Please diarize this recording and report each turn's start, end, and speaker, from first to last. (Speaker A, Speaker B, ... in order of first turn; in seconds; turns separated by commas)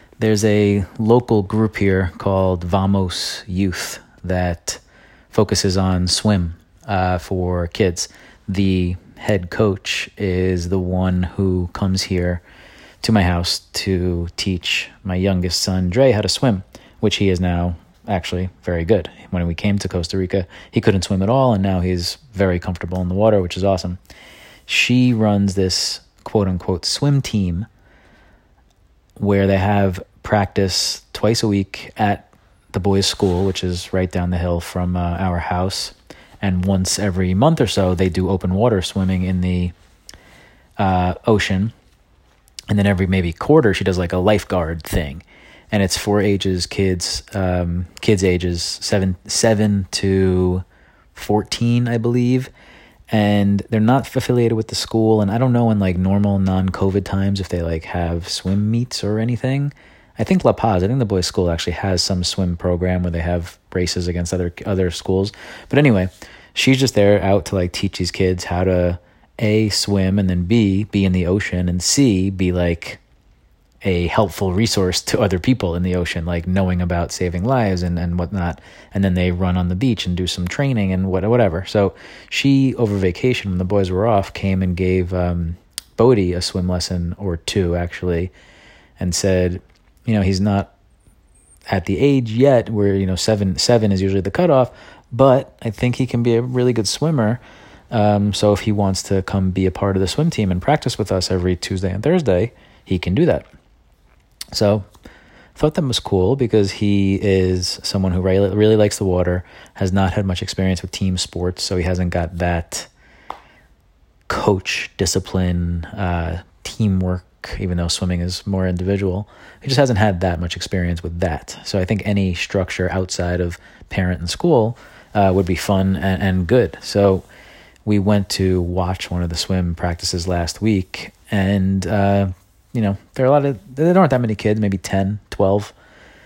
Speaker A: 0.2-12.4, Speaker A: 13.0-24.0, Speaker A: 24.7-27.7, Speaker A: 29.2-39.7, Speaker A: 40.8-41.7, Speaker A: 42.7-50.6, Speaker A: 51.1-52.5, Speaker A: 53.1-73.0, Speaker A: 73.8-88.3, Speaker A: 89.0-90.7, Speaker A: 91.7-103.5, Speaker A: 104.5-104.9, Speaker A: 105.6-112.9, Speaker A: 114.3-127.3, Speaker A: 127.8-135.7